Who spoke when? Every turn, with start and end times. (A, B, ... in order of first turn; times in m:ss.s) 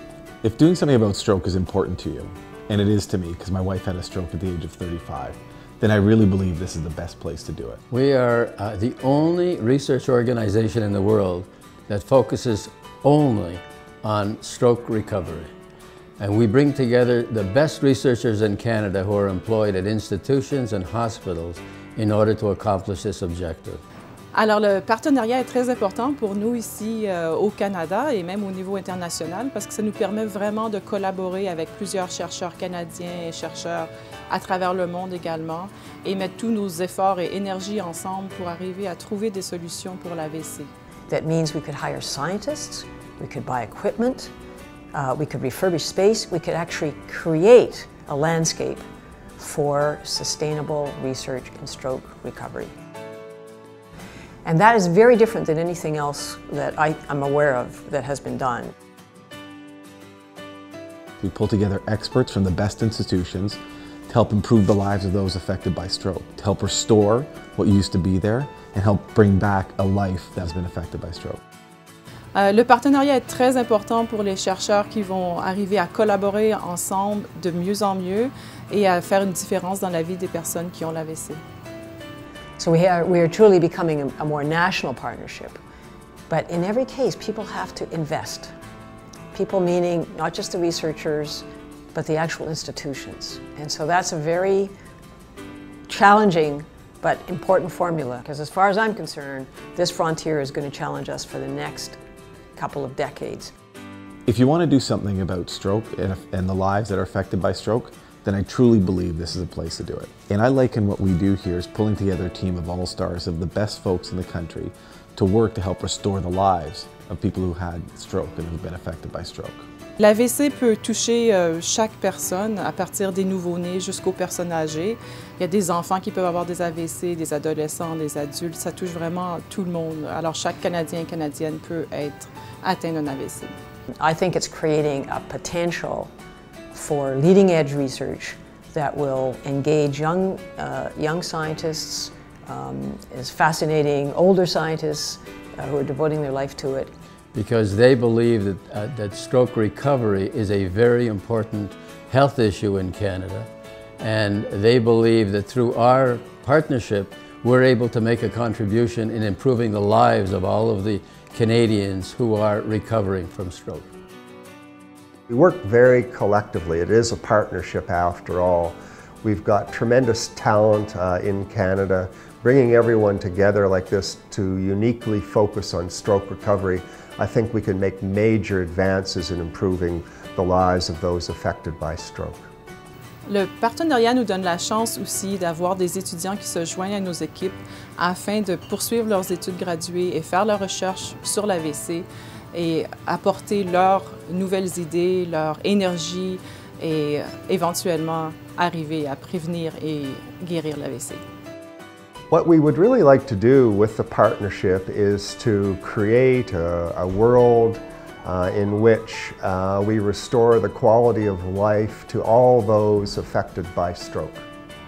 0:00.4-0:07.8 A
0:07.9-0:15.5 B
0:16.2-0:23.8 B
0:24.3-0:40.7 C
0:41.1-0:44.3 D
0:44.9-0:48.8 D
0:49.4-0:52.7 D
0:54.4-0:58.7 D
1:01.2-1:11.4 A
1:12.3-1:21.4 C
1:22.6-1:25.6 D
1:26.3-1:28.5 D
1:29.3-1:34.7 D
1:35.9-1:42.0 D
1:42.6-1:43.5 D
1:44.3-1:59.6 A
2:00.0-2:13.5 C
2:14.0-2:16.1 D
2:16.7-2:26.9 D
2:27.3-2:33.5 B
2:34.0-2:43.9 B
2:45.3-3:02.5 E
3:03.2-3:21.2 C
3:22.3-3:34.5 E